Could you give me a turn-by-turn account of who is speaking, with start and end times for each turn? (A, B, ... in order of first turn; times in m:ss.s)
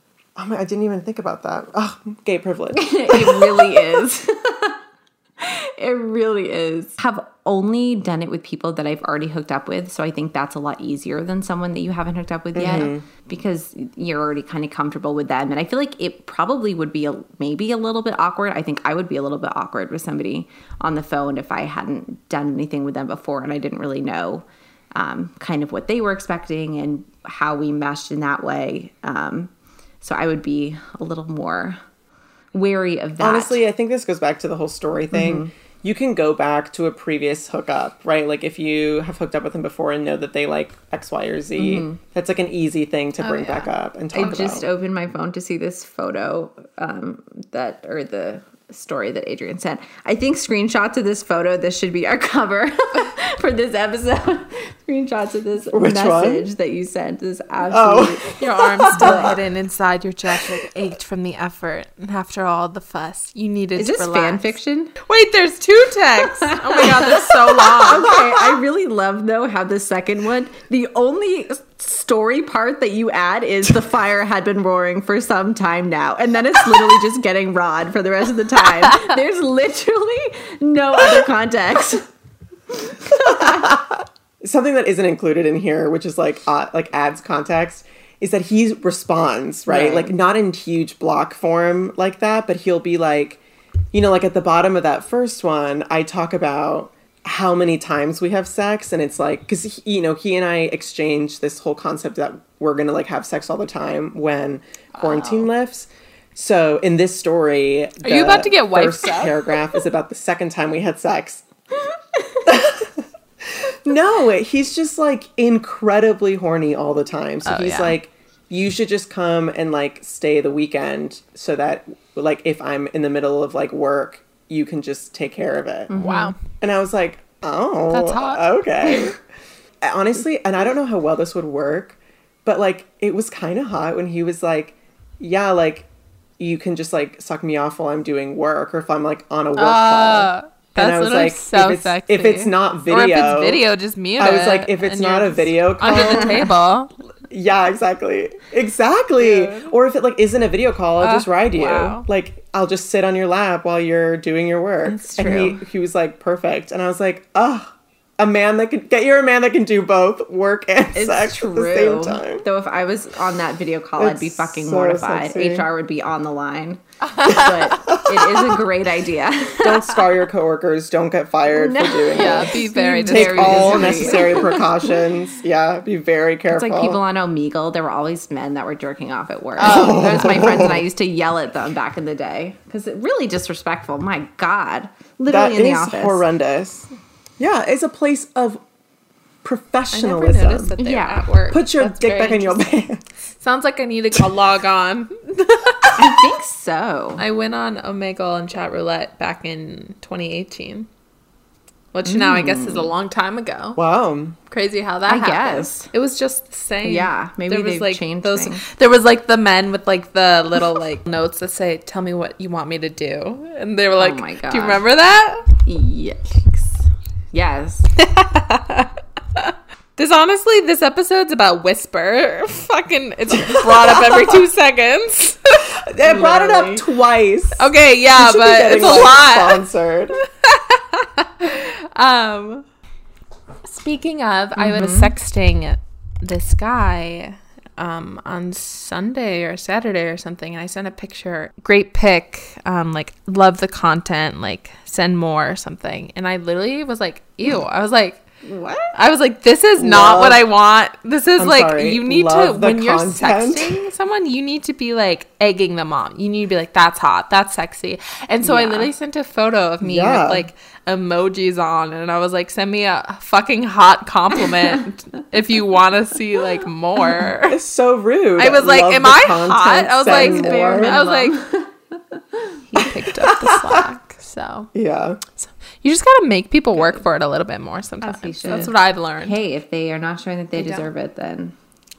0:00.4-0:04.0 A
0:02.8-0:04.8 B
0:05.4-0:24.4 B
0:12.6-0:13.0 A
0:25.0-0:29.5 B
0:30.0-0:31.8 B
0:32.5-0:33.6 B
0:33.2-0:44.7 A
0:35.1-0:35.5 B
0:41.6-0:42.0 B
0:43.2-0:43.7 C
0:44.1-0:59.4 B
0:55.7-0:56.5 A
0:57.7-0:59.4 A
0:58.4-1:08.1 C
1:03.8-1:04.9 B
1:06.5-1:22.1 B
1:22.7-1:23.8 B
1:23.2-1:33.4 A
1:29.7-1:30.1 B
1:33.9-1:51.5 A
1:45.0-1:45.5 C
1:48.0-1:49.6 C
1:52.4-2:05.9 A
1:57.4-1:58.0 C
2:05.9-2:06.3 B
2:05.9-2:06.4 C
2:06.6-2:09.2 A
2:07.9-2:08.4 C
2:09.8-2:15.9 A
2:16.4-2:23.6 A
2:19.6-2:26.9 C
2:24.2-2:26.5 A
2:27.3-2:42.4 A
2:29.2-2:29.7 C
2:31.0-2:32.1 C
2:34.9-2:35.6 B
2:41.0-2:50.0 B
2:44.0-2:45.7 A
2:47.2-2:47.5 C
2:47.9-2:48.6 A
2:49.6-2:57.0 A
2:51.5-2:55.0 B
2:52.1-2:54.6 C
2:56.5-3:06.2 B
2:59.6-3:00.7 C
2:59.6-3:00.9 A
3:05.3-3:08.6 A
3:09.4-3:10.7 A
3:09.9-3:12.7 C
3:10.8-3:11.3 B
3:11.5-3:13.0 A
3:13.4-3:16.3 C
3:16.0-3:17.2 B
3:17.2-3:20.9 C
3:21.9-3:23.8 C
3:22.0-3:22.9 B
3:23.8-3:24.4 A
3:24.5-3:35.5 C
3:25.1-3:25.9 B
3:26.8-3:28.6 B
3:34.0-3:34.8 B
3:35.6-3:37.9 B
3:38.0-3:45.7 C
3:43.5-3:44.1 A
3:45.9-3:50.2 A
3:46.1-3:46.8 B
3:47.6-3:49.6 C
3:50.4-3:52.7 C
3:53.7-4:08.2 C
3:54.6-3:55.1 B
4:08.4-4:08.9 B
4:08.9-4:27.6 C
4:09.8-4:10.4 A
4:11.4-4:13.8 A
4:19.8-4:20.5 A
4:27.5-4:31.0 A
4:28.4-4:31.4 C
4:30.1-4:32.6 B
4:32.7-4:34.7 C
4:33.3-4:33.8 A
4:34.7-4:35.2 A
4:35.4-4:39.4 C
4:36.8-4:37.0 B
4:38.0-4:41.5 B
4:40.6-4:40.9 C